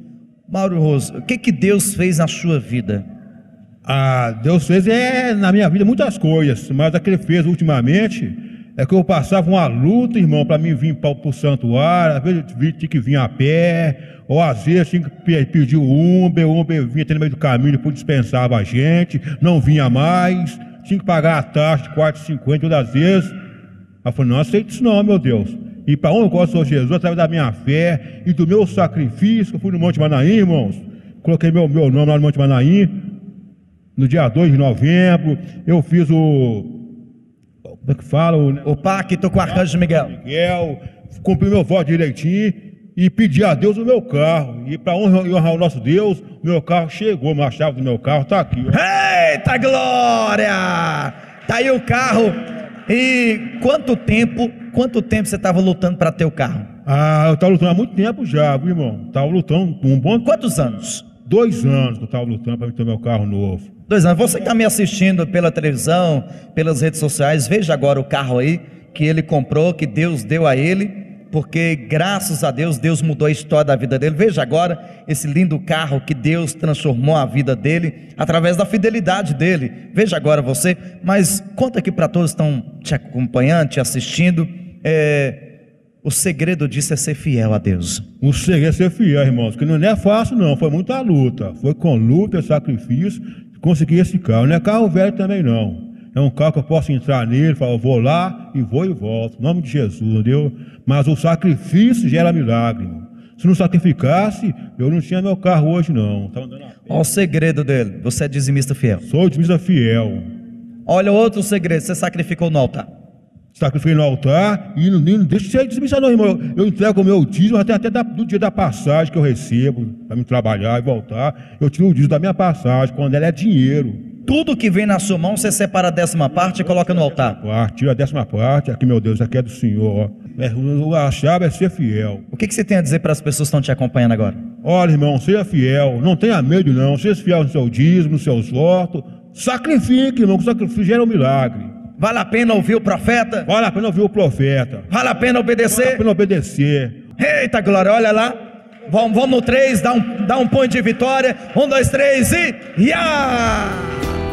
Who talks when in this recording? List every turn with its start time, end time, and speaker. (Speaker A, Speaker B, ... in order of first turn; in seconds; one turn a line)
Speaker A: 0.5-3.0
Speaker B: 3.8-23.3
Speaker B: 24.0-33.0
Speaker B: 34.0-36.8
Speaker B: 37.7-48.8
Speaker A: 38.6-40.1
Speaker A: 48.7-56.7
Speaker B: 56.9-60.3
Speaker A: 60.2-61.1
Speaker B: 61.2-63.7
Speaker A: 63.9-85.5
Speaker A: 86.0-88.0
Speaker B: 88.2-106.8
Speaker A: 106.9-109.0
Speaker B: 109.0-110.2
Speaker A: 110.8-112.9
Speaker B: 113.5-124.0
Speaker A: 124.2-127.4
Speaker B: 127.3-132.2
Speaker A: 132.3-134.4
Speaker B: 134.6-141.7
Speaker A: 142.0-143.5
Speaker B: 143.5-144.9
Speaker A: 144.9-146.0
Speaker B: 145.7-147.0
Speaker A: 147.2-154.1